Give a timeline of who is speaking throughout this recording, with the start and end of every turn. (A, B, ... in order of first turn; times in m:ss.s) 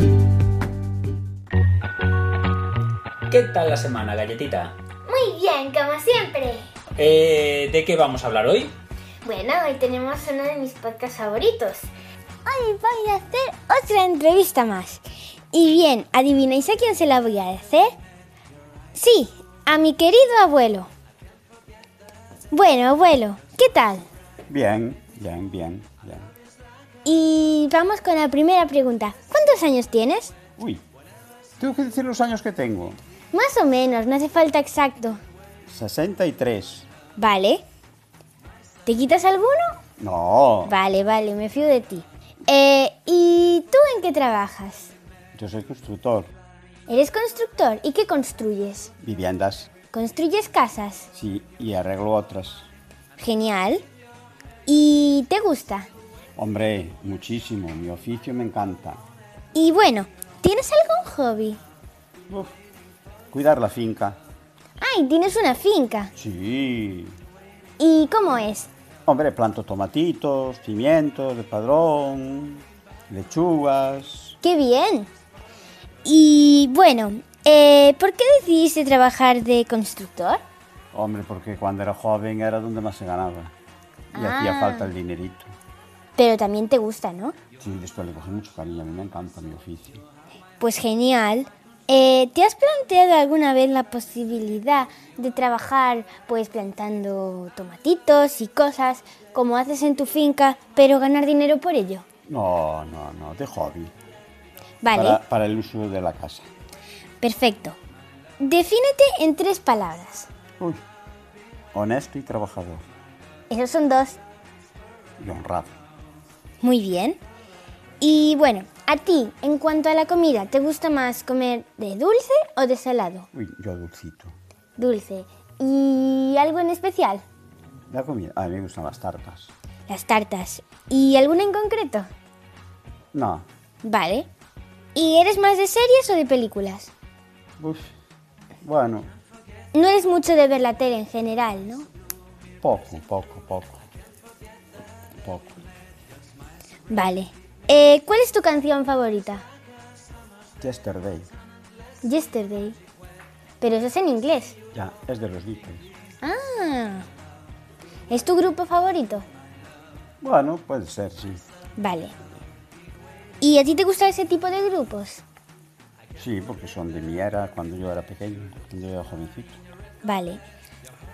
0:03.3-0:04.7 A
0:05.0-0:06.7 B
0:07.0-0:08.7 A
0:09.2-0:11.9 B
0:12.4-0:17.9 B
0:18.9-0:20.9 B
0:22.5-0:24.0 B
0:24.5-0:26.3 C
0:27.0-0:30.4 B
0:30.6-0:30.8 C
0:31.6-0:33.0 C
0:33.3-0:35.2 B
0:35.6-0:36.9 C
0:37.2-0:37.6 B
0:38.8-0:39.8 B
0:40.0-0:40.8 C
0:40.6-0:44.9 B
0:45.3-0:46.3 C
0:46.9-0:48.9 B
0:49.0-0:49.7 C
0:49.9-0:51.1 B
0:51.1-0:52.7 C
0:53.2-0:53.8 B
0:54.6-0:55.9 B
0:56.4-0:59.0 C
0:59.5-1:01.6 B
1:03.3-1:04.2 C
1:04.8-1:06.1 B
1:06.2-1:07.2 C
1:07.8-1:08.7 B
1:09.0-1:14.4 C
1:14.4-1:15.1 B
1:16.0-1:20.4 B
1:20.9-1:23.5 C
1:24.1-1:25.5 C
1:24.1-1:24.9 B
1:26.2-1:27.3 B
1:27.6-1:30.0 C
1:30.6-1:42.0 B
1:42.3-1:43.9 C
1:44.8-1:45.2 B
1:44.9-1:46.5 C
1:47.2-1:47.8 B
1:48.4-1:50.3 B
1:51.7-1:52.8 C
1:53.5-1:54.2 B
1:55.2-1:55.7 C
1:56.6-1:57.2 B
1:58.0-2:03.3 B
2:03.3-2:04.3 C
2:04.8-2:07.2 B
2:07.9-2:09.5 C
2:09.9-2:12.1 B
2:13.1-2:13.5 C
2:13.8-2:14.3 B
2:14.9-2:16.9 B
2:17.6-2:17.9 C
2:18.6-2:19.1 C
2:19.7-2:21.9 B
2:22.6-2:23.8 C
2:25.2-2:25.6 C
2:26.9-2:29.4 B
2:30.6-2:31.3 C
2:32.0-2:32.8 B
2:33.6-2:34.6 B
2:34.7-2:35.9 C
2:36.2-2:37.1 B
2:38.1-2:39.2 B
2:40.2-2:41.4 C
2:41.8-2:42.1 B
2:43.4-2:45.2 B
2:46.2-2:49.6 C
2:50.0-2:50.4 B